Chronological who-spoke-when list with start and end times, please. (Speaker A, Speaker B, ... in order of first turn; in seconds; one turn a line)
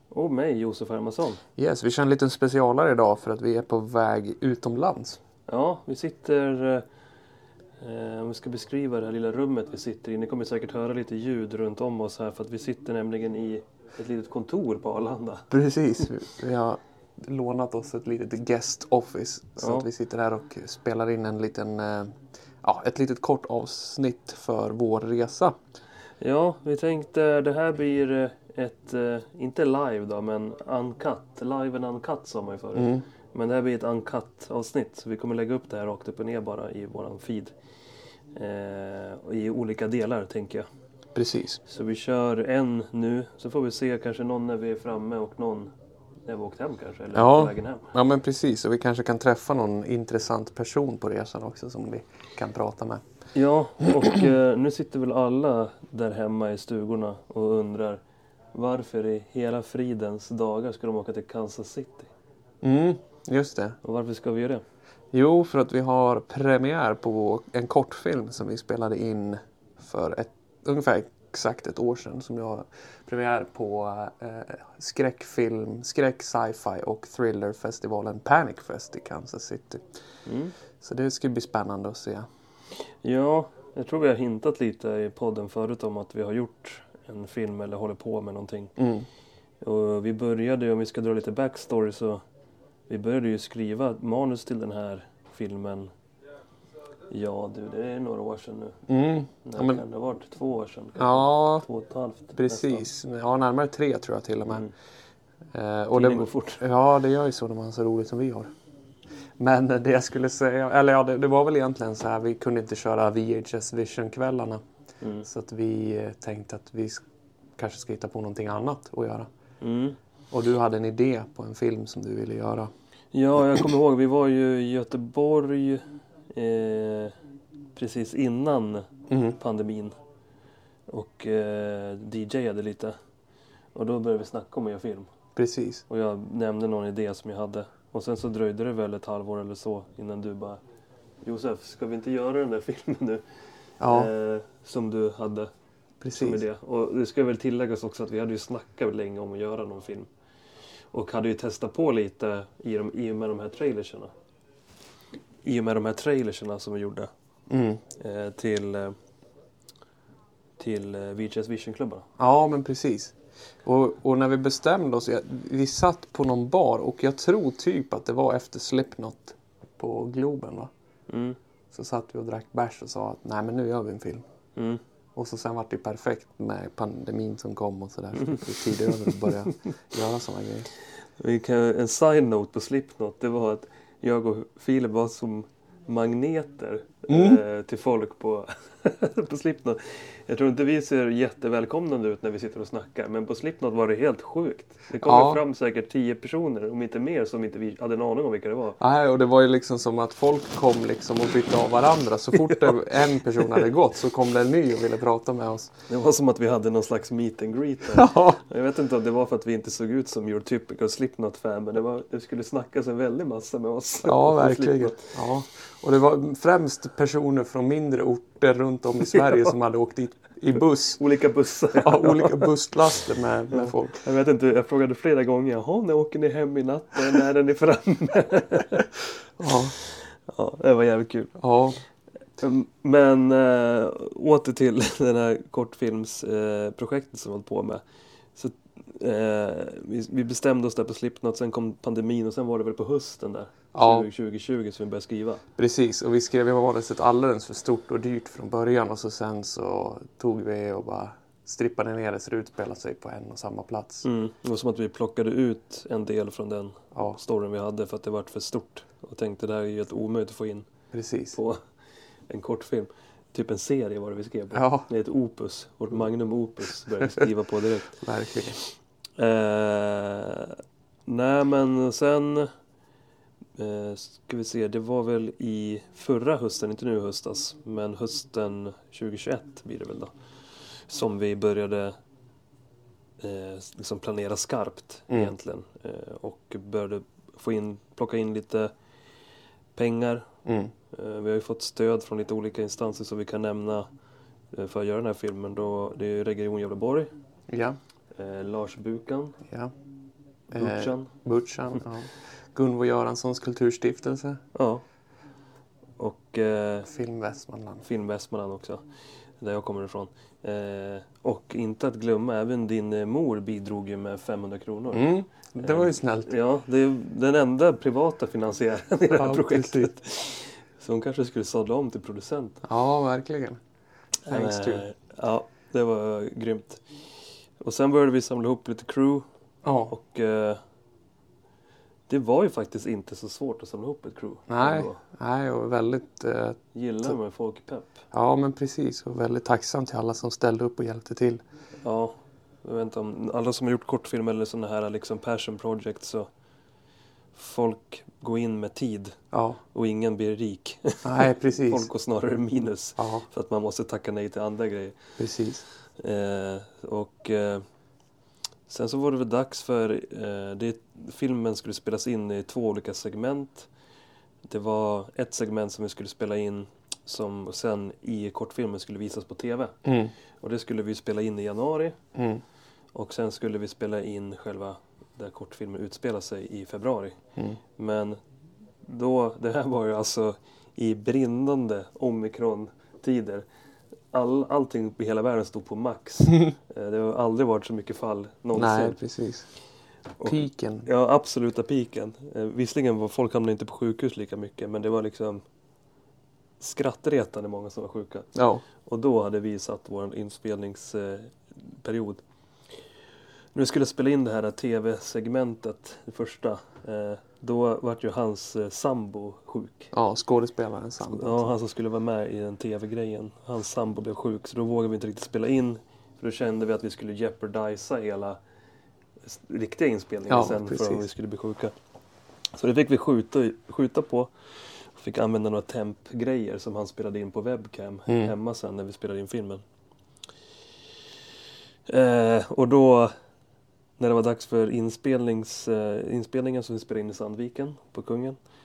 Speaker A: 0.1-1.4
Speaker B: 1.6-5.2
Speaker A: 5.5-6.8
Speaker A: 7.8-15.4
Speaker B: 15.5-25.6
Speaker A: 19.6-19.9
Speaker A: 26.2-37.5
Speaker B: 32.7-33.0
Speaker A: 38.3-40.7
Speaker B: 41.1-41.6
Speaker A: 41.7-45.7
Speaker A: 46.3-47.9
Speaker B: 47.1-53.0
Speaker A: 53.3-58.0
Speaker A: 58.5-62.1
Speaker B: 62.6-63.8
Speaker A: 63.8-64.6
Speaker B: 65.1-79.8
Speaker A: 80.2-80.5
Speaker B: 80.8-82.2
Speaker A: 83.0-88.7
Speaker B: 88.8-89.0
Speaker A: 89.6-92.2
Speaker A: 92.9-95.9
Speaker A: 97.1-98.8
Speaker B: 98.9-99.8
Speaker A: 99.4-102.8
Speaker B: 101.0-101.6
Speaker B: 102.4-104.7
Speaker B: 105.5-108.5
Speaker A: 105.9-106.6
Speaker B: 109.4-114.6
Speaker A: 115.0-115.3
Speaker B: 115.2-117.0
Speaker B: 117.6-119.3
Speaker A: 119.6-120.0
Speaker B: 120.3-122.7
Speaker A: 123.1-127.1
Speaker A: 127.7-129.9
Speaker B: 129.1-129.4
Speaker A: 130.9-132.9
Speaker A: 133.8-135.1
Speaker B: 135.4-135.8
Speaker A: 135.9-140.6
Speaker A: 141.2-143.2
Speaker B: 143.8-144.1
Speaker A: 143.9-145.5
Speaker B: 146.0-146.4
Speaker A: 146.1-150.1
Speaker A: 150.9-154.1
Speaker A: 155.4-157.1
Speaker B: 157.5-157.8
Speaker A: 158.0-158.9
Speaker A: 160.6-162.1
Speaker B: 162.2-170.7
Speaker A: 171.1-171.4
Speaker B: 171.7-174.2
Speaker A: 174.6-174.8
Speaker B: 175.2-180.7
Speaker A: 178.2-179.3
Speaker A: 181.2-198.8
Speaker B: 187.1-187.4
Speaker B: 195.0-195.4
Speaker B: 198.8-205.7
Speaker A: 202.4-203.7
Speaker A: 205.9-215.2
Speaker B: 207.9-208.4
Speaker B: 214.0-221.0
Speaker A: 219.2-219.5
Speaker A: 221.0-222.5
Speaker B: 221.8-224.0
Speaker A: 223.5-229.0
Speaker B: 229.4-229.8
Speaker A: 229.8-231.4
Speaker B: 231.4-231.8
Speaker A: 232.4-237.8
Speaker A: 238.3-245.4
Speaker B: 243.8-244.1
Speaker B: 245.6-254.1
Speaker A: 254.0-260.7
Speaker B: 260.9-261.4
Speaker A: 261.3-261.6
Speaker A: 262.3-268.0
Speaker B: 264.5-264.9
Speaker B: 268.0-268.6
Speaker A: 269.2-272.5
Speaker A: 273.6-280.1
Speaker A: 280.9-281.9
Speaker A: 283.2-288.7
Speaker A: 289.8-290.3
Speaker B: 290.4-290.7
Speaker A: 290.9-293.9
Speaker A: 294.5-297.1
Speaker B: 297.5-297.8
Speaker A: 298.1-299.4
Speaker B: 300.5-304.4
Speaker A: 300.5-301.1
Speaker A: 304.5-304.8
Speaker A: 306.0-306.9
Speaker B: 306.9-307.8
Speaker A: 307.8-308.8
Speaker A: 309.4-322.6
Speaker B: 314.9-316.3
Speaker B: 319.1-319.9
Speaker B: 322.6-323.6
Speaker A: 324.2-326.8
Speaker B: 324.3-324.9
Speaker A: 327.6-329.2
Speaker B: 329.6-329.9
Speaker A: 329.9-330.6
Speaker A: 332.1-335.0
Speaker B: 334.5-337.1
Speaker A: 336.7-338.0
Speaker B: 338.1-341.4
Speaker A: 341.8-346.3
Speaker A: 347.3-349.2
Speaker B: 349.3-349.6
Speaker A: 349.7-355.0
Speaker B: 351.0-351.9
Speaker B: 353.0-353.2
Speaker B: 355.2-355.6
Speaker A: 356.0-357.6
Speaker A: 358.7-363.7
Speaker A: 364.4-369.8
Speaker B: 369.8-370.1
Speaker A: 370.4-372.0
Speaker B: 372.1-372.4
Speaker A: 372.9-377.1
Speaker A: 377.8-378.2
Speaker A: 378.8-383.4
Speaker A: 384.1-389.0
Speaker B: 388.5-389.4
Speaker A: 390.2-395.4
Speaker B: 390.2-390.9
Speaker A: 396.6-398.3
Speaker B: 398.3-398.6
Speaker A: 398.8-402.2
Speaker A: 403.5-409.9
Speaker B: 409.9-411.5
Speaker A: 411.0-418.4
Speaker A: 419.2-421.7
Speaker B: 420.3-421.1
Speaker A: 422.5-424.3
Speaker A: 424.9-429.6
Speaker B: 428.1-428.3
Speaker A: 431.9-433.1
Speaker A: 434.0-438.4